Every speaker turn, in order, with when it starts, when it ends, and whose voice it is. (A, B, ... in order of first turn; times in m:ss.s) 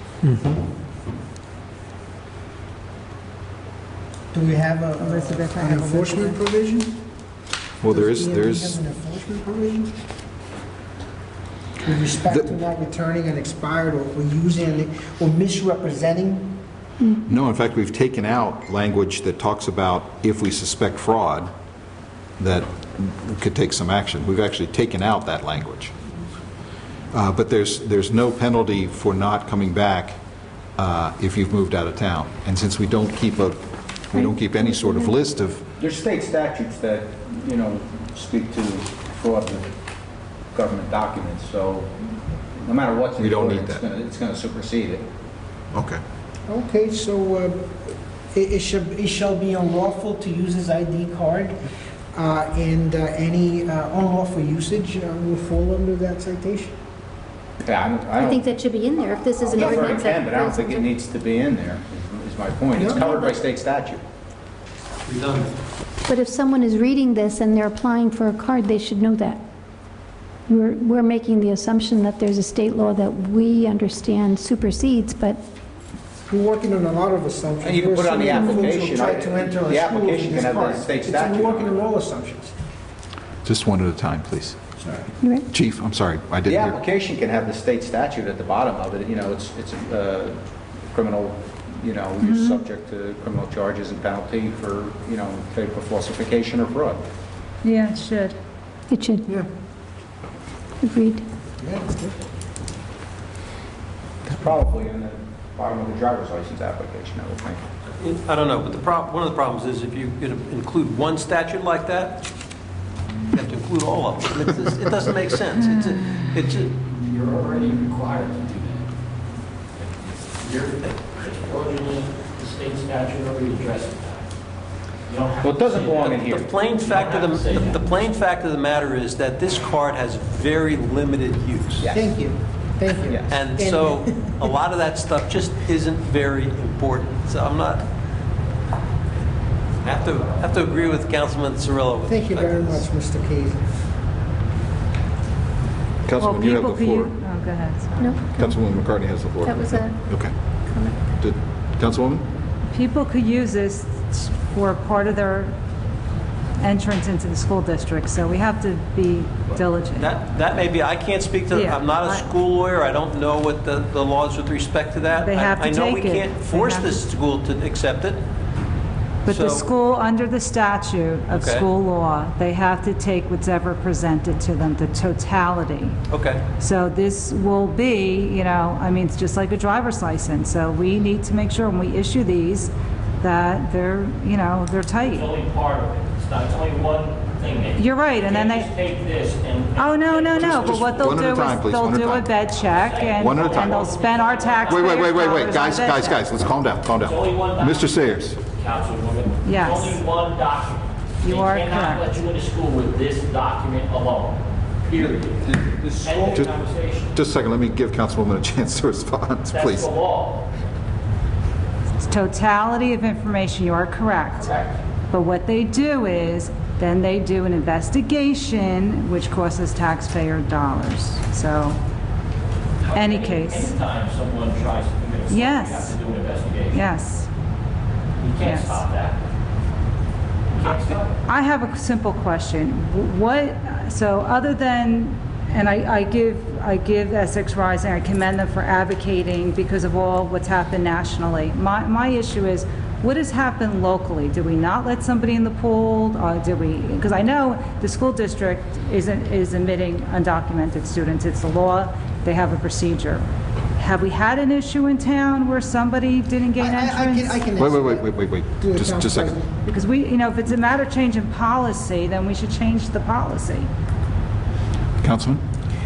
0:00.3-0:00.6 A
0:04.3-0:07.0 B
0:05.0-0:06.4 C
0:07.8-0:08.8 D
0:07.9-0:09.9 B
0:11.8-0:16.5 B
0:17.3-0:21.5 D
0:22.4-0:25.9 D
0:27.1-0:30.2 D
0:30.8-0:33.6 D
0:34.1-0:35.6 D
0:34.2-0:35.2 E
0:35.8-0:39.7 F
0:40.5-0:41.9 F
0:42.6-0:45.0 F
0:43.2-0:43.8 D
0:45.7-0:46.0 D
0:46.5-0:51.6 B
0:52.1-0:56.8 B
0:57.6-1:04.0 F
0:58.2-1:00.9 E
0:59.6-1:00.0 B
1:02.8-1:03.1 B
1:03.0-1:03.3 E
1:05.1-1:05.5 A
1:06.1-1:09.4 E
1:10.5-1:15.4 E
1:16.3-1:22.5 B
1:17.6-1:21.8 F
1:23.4-1:24.6 D
1:24.8-1:25.1 B
1:25.5-1:26.8 D
1:26.4-1:30.4 F
1:30.9-1:37.0 F
1:32.2-1:32.6 E
1:37.6-1:38.4 C
1:38.9-1:39.3 E
1:40.8-1:41.2 E
1:41.6-1:42.2 B
1:44.2-1:47.6 F
1:48.0-1:52.2 A
1:53.3-1:56.8 A
1:56.9-1:58.9 G
1:59.8-2:04.3 G
2:05.1-2:07.9 G
2:05.4-2:06.5 F
2:06.1-2:11.9 A
2:11.9-2:14.5 B
2:13.1-2:13.4 F
2:13.3-2:17.9 A
2:19.8-2:22.8 A
2:20.3-2:20.9 G
2:22.0-2:23.8 B
2:26.0-2:27.1 D
2:26.2-2:28.2 C
2:28.0-2:28.5 E
2:28.4-2:30.3 D
2:29.4-2:30.0 E
2:30.7-2:31.1 E
2:31.2-2:32.2 D
2:32.7-2:35.5 C
2:36.6-2:40.1 C
2:40.0-2:48.2 A
2:41.5-2:42.3 C
2:45.2-2:47.0 C
2:49.3-2:49.7 A
2:49.3-2:56.0 C
2:51.3-2:51.7 A
2:56.1-2:56.4 A
2:56.6-3:05.3 C
3:05.0-3:11.1 G
3:07.8-3:08.7 C
3:09.8-3:16.2 C
3:10.4-3:12.3 D
3:12.5-3:15.6 G
3:13.2-3:13.9 D
3:14.7-3:18.4 D
3:17.0-3:27.2 G
3:19.4-3:20.0 C
3:21.2-3:22.1 C
3:25.6-3:26.5 F
3:27.1-3:29.9 D
3:29.5-3:30.5 G
3:32.1-3:34.5 C
3:34.4-3:34.8 G
3:35.1-3:41.8 C
3:42.8-3:46.8 G
3:42.9-3:43.7 C
3:45.3-3:45.9 C
3:46.7-3:47.3 C
3:48.2-3:49.2 G
3:48.4-3:48.8 C
3:50.5-3:51.2 G
3:51.3-4:13.2 C
4:13.8-4:17.4 C
4:16.6-4:19.6 B
4:17.6-4:19.4 D
4:19.7-4:23.7 C
4:25.0-4:25.4 D